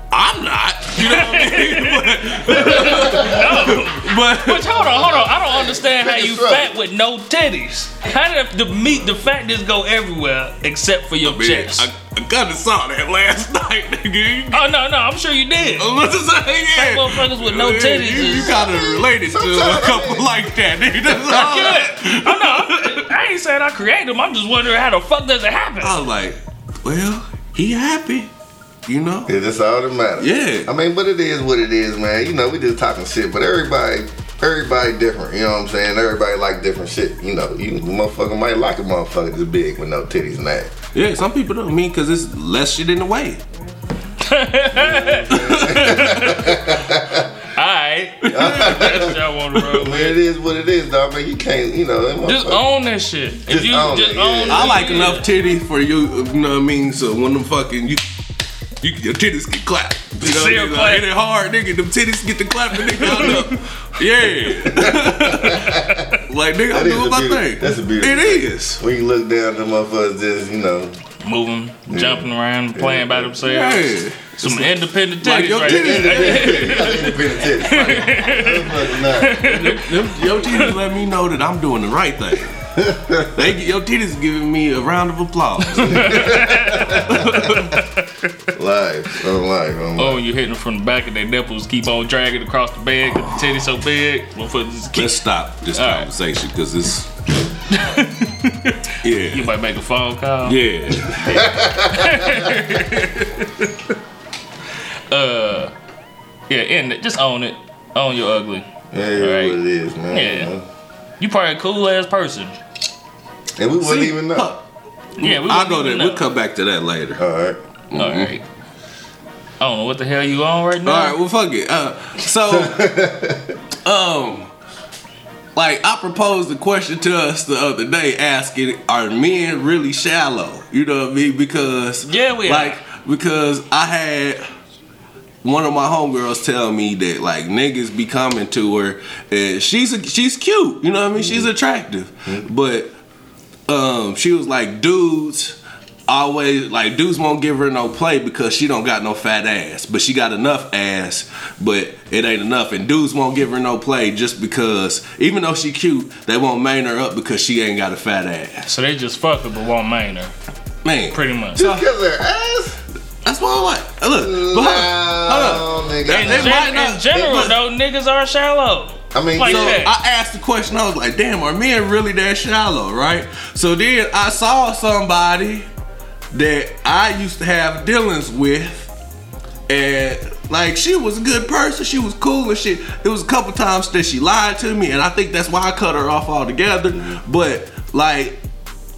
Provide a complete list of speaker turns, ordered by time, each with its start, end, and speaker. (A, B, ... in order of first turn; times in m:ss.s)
0:00.1-0:04.7 A
0:00.9-0:11.9 B
0:02.6-0:03.8 C
0:04.6-0:06.8 C
0:11.2-0:14.7 A
0:14.5-0:15.9 B
0:15.6-0:23.0 A
0:16.7-0:18.5 B
0:18.1-0:20.5 C
0:21.1-0:21.4 C
0:21.3-0:25.9 B
0:25.8-0:28.3 A
0:28.8-0:29.3 A
0:29.3-0:40.7 C
0:30.2-0:30.7 A
0:40.9-0:43.4 A
0:44.2-0:46.6 B
0:44.7-0:47.3 C
0:45.3-0:46.1 A
0:47.5-0:50.2 B
0:48.2-0:49.0 A
0:48.3-0:52.7 C
0:52.2-0:55.2 B
0:53.4-0:54.7 C
0:54.5-0:58.0 A
0:58.8-1:08.8 A
1:00.2-1:01.1 B
1:03.0-1:03.5 B
1:04.7-1:06.0 C
1:05.7-1:06.2 B
1:06.7-1:10.9 C
1:11.2-1:20.7 B
1:11.9-1:13.4 C
1:13.4-1:17.1 A
1:15.6-1:19.4 C
1:19.4-1:22.6 A
1:22.7-1:23.4 C
1:23.3-1:26.4 A
1:25.7-1:28.1 B
1:25.9-1:27.4 C
1:27.1-1:27.6 A
1:28.5-1:30.2 C
1:30.0-1:35.2 B
1:33.1-1:33.6 A
1:34.9-1:37.1 A
1:35.7-1:36.1 B
1:37.7-1:38.8 B
1:39.0-1:39.5 A
1:39.3-1:40.6 B
1:40.4-1:41.5 A
1:41.0-1:42.5 C
1:41.9-1:43.4 B
1:42.7-1:43.3 A
1:45.1-1:45.7 B
1:46.5-1:49.6 B
1:48.9-1:50.6 C
1:50.1-1:50.5 B
1:51.2-1:52.6 B
1:53.6-1:54.5 C
1:53.8-1:54.6 A
1:55.2-1:56.3 B
1:55.2-1:57.2 A
1:57.2-1:57.6 C
1:57.9-1:58.4 A
1:57.9-1:58.4 B
1:59.6-2:01.1 B
2:00.8-2:03.0 A
2:02.4-2:03.5 C
2:03.8-2:04.5 A
2:05.5-2:14.4 A
2:12.1-2:12.8 B
2:15.4-2:22.9 A
2:21.2-2:21.5 C
2:23.7-2:25.6 A
2:26.1-2:38.7 A
2:38.6-2:40.3 B
2:40.8-2:41.7 A
2:41.1-2:41.7 B
2:41.5-2:42.8 C
2:43.2-2:47.5 A
2:44.1-2:47.5 C
2:46.1-2:49.9 B
2:49.1-2:49.8 C
2:49.4-2:55.6 A
2:56.3-2:58.9 A
2:59.7-3:08.4 A